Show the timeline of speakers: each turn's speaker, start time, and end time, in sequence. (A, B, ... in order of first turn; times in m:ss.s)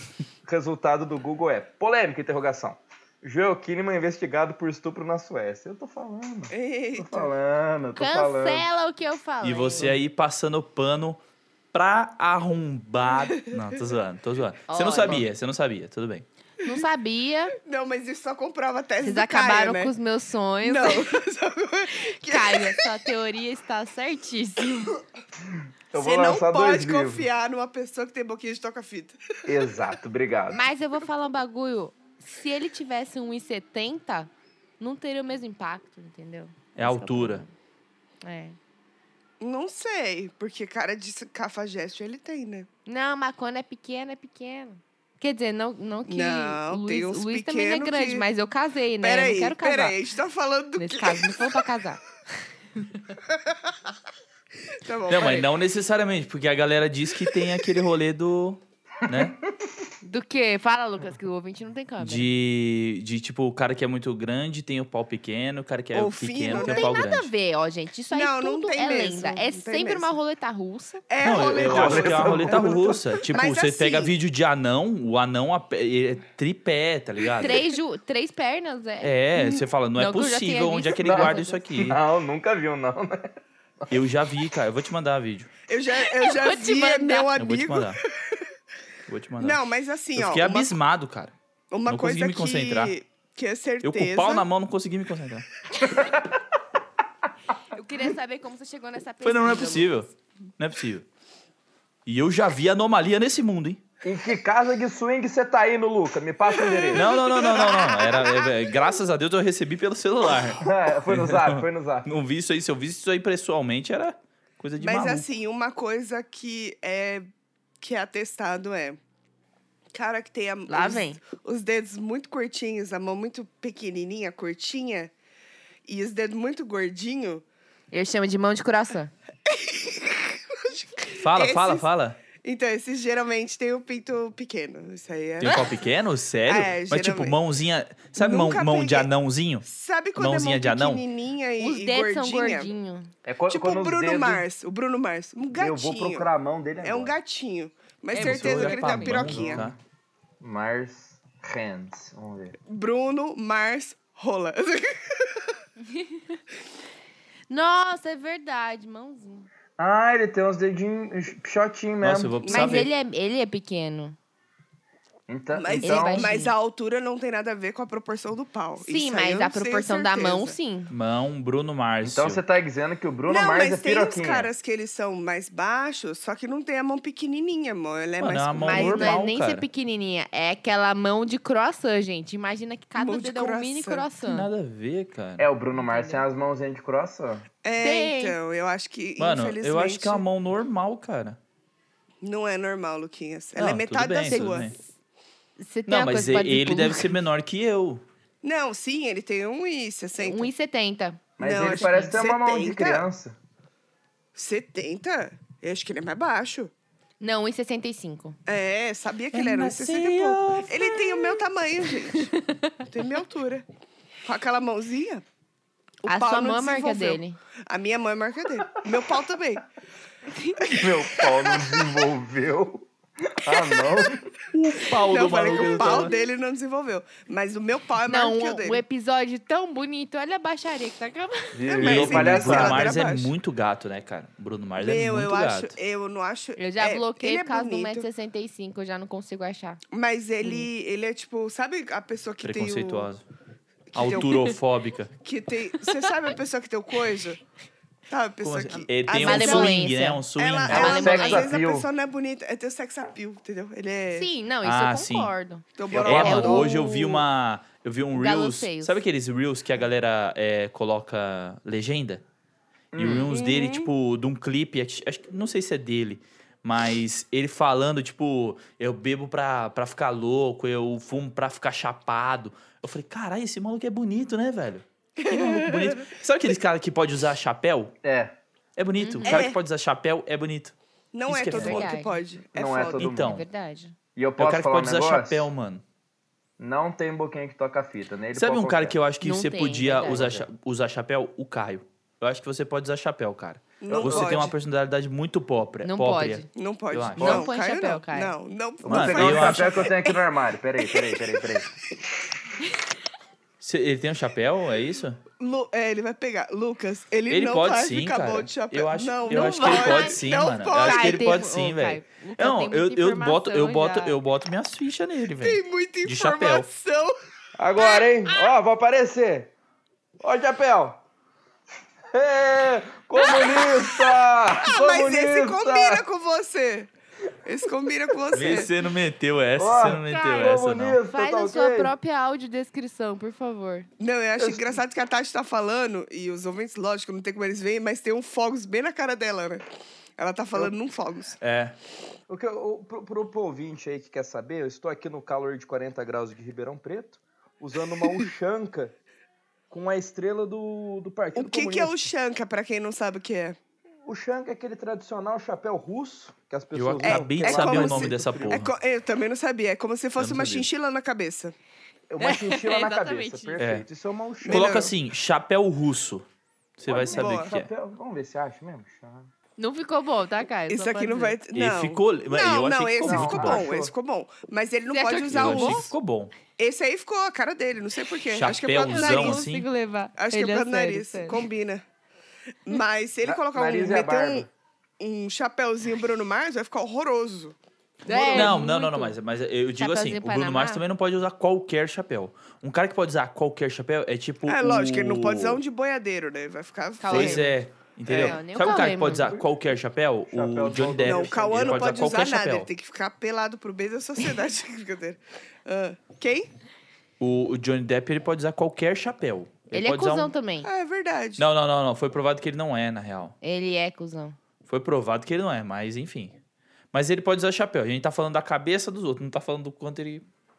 0:00.4-0:08.7 A
0:06.5-0:07.3 B
0:08.0-0:09.9 C
0:09.4-0:11.2 D
0:11.7-0:16.2 D
0:14.7-0:15.2 C
0:16.6-0:17.6 C
0:17.6-0:19.9 B
0:19.0-0:21.1 C
0:20.6-0:22.8 B
0:22.0-0:25.0 C
0:25.9-0:27.3 A
0:26.0-0:29.8 B
0:29.4-0:30.6 A
0:30.5-0:37.5 C
0:36.8-0:37.4 D
0:38.2-0:38.6 C
0:39.4-0:42.7 B
0:42.8-0:50.0 C
0:46.1-0:48.3 B
0:49.0-0:51.6 B
0:50.8-0:52.0 C
0:52.8-0:53.2 C
0:53.3-0:53.8 B
0:54.7-0:55.5 B
0:55.1-0:59.4 D
0:59.1-0:59.4 A
1:00.0-1:02.3 C
1:02.0-1:07.3 D
1:05.9-1:06.9 B
1:06.5-1:11.0 C
1:08.1-1:10.2 B
1:11.1-1:14.1 B
1:11.2-1:17.6 D
1:11.5-1:13.1 A
1:17.4-1:21.6 C
1:19.0-1:22.0 D
1:21.0-1:23.8 A
1:23.9-1:25.5 D
1:25.7-1:28.5 B
1:26.1-1:27.3 C
1:27.4-1:28.0 D
1:29.1-1:29.6 D
1:29.4-1:30.8 B
1:30.2-1:31.3 D
1:31.7-1:34.4 B
1:31.8-1:32.9 D
1:33.8-1:35.5 D
1:35.8-1:36.2 A
1:37.7-1:40.0 C
1:39.2-1:41.0 D
1:42.0-1:43.8 D
1:44.0-1:47.1 A
1:46.6-1:47.8 B
1:46.9-1:55.2 D
1:47.1-1:48.5 C
1:50.6-1:52.1 A
1:54.8-1:57.3 B
1:57.8-1:59.0 B
1:59.9-2:05.1 B
2:00.7-2:01.2 C
2:05.8-2:07.4 B
2:07.9-2:09.1 C
2:09.4-2:11.8 B
2:11.1-2:12.2 D
2:12.4-2:15.7 B
2:15.4-2:19.6 D
2:16.5-2:17.4 B
2:18.2-2:19.1 B
2:19.6-2:22.7 B
2:20.2-2:21.0 D
2:21.6-2:23.1 C
2:23.2-2:24.4 A
2:23.5-2:29.7 B
2:25.5-2:27.1 A
2:28.1-2:29.3 C
2:28.1-2:29.8 D
2:29.3-2:29.7 A
2:30.4-2:32.6 A
2:32.7-2:35.6 B
2:35.9-2:36.2 C
2:37.5-2:39.5 C
2:39.8-2:42.4 A
2:42.0-2:42.9 D
2:42.4-2:42.8 B
2:42.5-2:44.2 C
2:45.3-2:46.3 A
2:45.5-2:50.6 B
2:45.8-2:46.5 C
2:48.8-2:50.9 C
2:50.9-2:52.4 D
2:52.0-2:54.5 A
2:53.2-2:59.2 B
2:58.2-2:59.6 D
2:58.6-3:04.5 C
3:02.9-3:04.1 B
3:04.2-3:05.5 D
3:05.4-3:07.4 A
3:05.7-3:06.2 C
3:07.6-3:10.2 B
3:07.8-3:08.4 C
3:09.2-3:11.4 D
3:12.2-3:14.7 B
3:13.6-3:14.7 D
3:14.3-3:14.8 C
3:15.6-3:17.1 C
3:15.9-3:18.0 D
3:18.4-3:20.5 B
3:20.2-3:22.2 C
3:21.4-3:23.4 A
3:21.4-3:23.1 B
3:24.3-3:26.7 B
3:27.2-3:28.4 C
3:28.5-3:32.3 B
3:29.3-3:31.3 D
3:32.1-3:32.7 C
3:32.9-3:33.6 B
3:34.2-3:35.2 B
3:36.0-3:39.6 B
3:36.1-3:37.4 C
3:40.3-3:40.6 C
3:40.6-3:41.9 B
3:40.6-3:44.3 A
3:44.5-3:46.1 D
3:45.0-3:48.8 B
3:45.6-3:46.0 A
3:48.0-3:51.6 C
3:51.5-3:52.9 A
3:51.7-3:53.3 B
3:51.8-3:55.8 D
3:54.8-3:58.1 B
3:56.6-3:59.8 C
3:59.9-4:03.1 B
4:02.4-4:03.2 D
4:03.9-4:04.4 B
4:03.9-4:05.1 D
4:05.2-4:07.4 B
4:08.1-4:14.3 B
4:08.4-4:11.1 D
4:09.1-4:11.5 C
4:10.7-4:11.9 A
4:14.1-4:17.2 C
4:14.6-4:15.3 D
4:15.8-4:16.8 B
4:15.9-4:16.4 A
4:16.0-4:22.2 D
4:18.1-4:19.0 C
4:22.9-4:23.3 A
4:23.0-4:37.9 D
4:23.2-4:23.9 B
4:35.2-4:36.0 B
4:38.0-4:38.4 A
4:38.8-4:40.7 D
4:39.0-4:39.4 C
4:39.2-4:39.6 B
4:41.1-4:43.1 B
4:41.3-4:41.9 D
4:41.5-4:42.2 C
4:42.5-4:43.3 A
4:43.0-4:43.4 D
4:43.1-4:43.9 C
4:44.2-4:45.5 A
4:44.4-4:45.8 D
4:46.6-4:49.0 A
4:48.3-4:57.4 D
4:49.2-4:50.3 C
4:50.1-4:50.4 A
4:53.8-4:54.5 B
4:53.9-4:54.5 A
4:55.8-4:56.5 C
4:56.5-5:00.1 B
4:57.2-4:58.3 C
4:58.8-5:01.8 A
4:58.8-5:00.0 D
5:03.6-5:05.2 D
5:05.4-5:11.4 B
5:07.3-5:16.7 D
5:09.3-5:10.2 C
5:10.7-5:14.2 C
5:15.4-5:17.2 B
5:17.6-5:19.5 A
5:17.8-5:18.0 B
5:20.2-5:21.0 A
5:22.1-5:26.0 A
5:23.2-5:23.9 B
5:24.6-5:26.9 B
5:27.4-5:28.7 B
5:28.3-5:31.0 D
5:29.6-5:31.9 A
5:30.1-5:33.9 C
5:34.0-5:39.6 B
5:34.4-5:34.8 A
5:40.2-5:41.4 B
5:41.4-5:41.8 D
5:42.3-5:48.9 A
5:49.7-5:52.1 A
5:51.3-5:53.6 B
5:54.0-5:58.6 A
5:56.7-5:58.7 D
5:57.0-6:01.6 B
6:00.2-6:00.7 D
6:02.1-6:04.9 A
6:02.2-6:03.6 C
6:03.6-6:03.8 D
6:04.4-6:04.9 B
6:04.5-6:06.2 D
6:06.8-6:07.7 D
6:06.9-6:09.3 A
6:07.0-6:07.5 B
6:09.6-6:11.4 C
6:10.7-6:15.9 B
6:11.5-6:13.6 D
6:13.0-6:13.9 A
6:14.9-6:15.9 C
6:15.3-6:16.3 D
6:16.6-6:19.4 B
6:18.3-6:19.7 D
6:18.9-6:21.4 C
6:20.2-6:21.8 B
6:22.6-6:24.5 B
6:23.2-6:24.5 A
6:25.0-6:28.6 B
6:28.0-6:29.2 C
6:28.3-6:35.6 D
6:29.8-6:30.8 C
6:34.4-6:37.5 B
6:37.0-6:37.5 C
6:37.1-6:42.7 D
6:38.1-6:38.4 B
6:38.2-6:39.4 C
6:38.7-6:39.4 A
6:40.3-6:42.1 A
6:41.0-6:46.5 B
6:47.2-6:50.3 D
6:49.7-6:50.7 C
6:50.6-6:51.4 B
6:51.4-6:53.3 D
6:53.4-6:54.4 C
6:54.7-6:56.4 D
6:56.9-7:00.2 D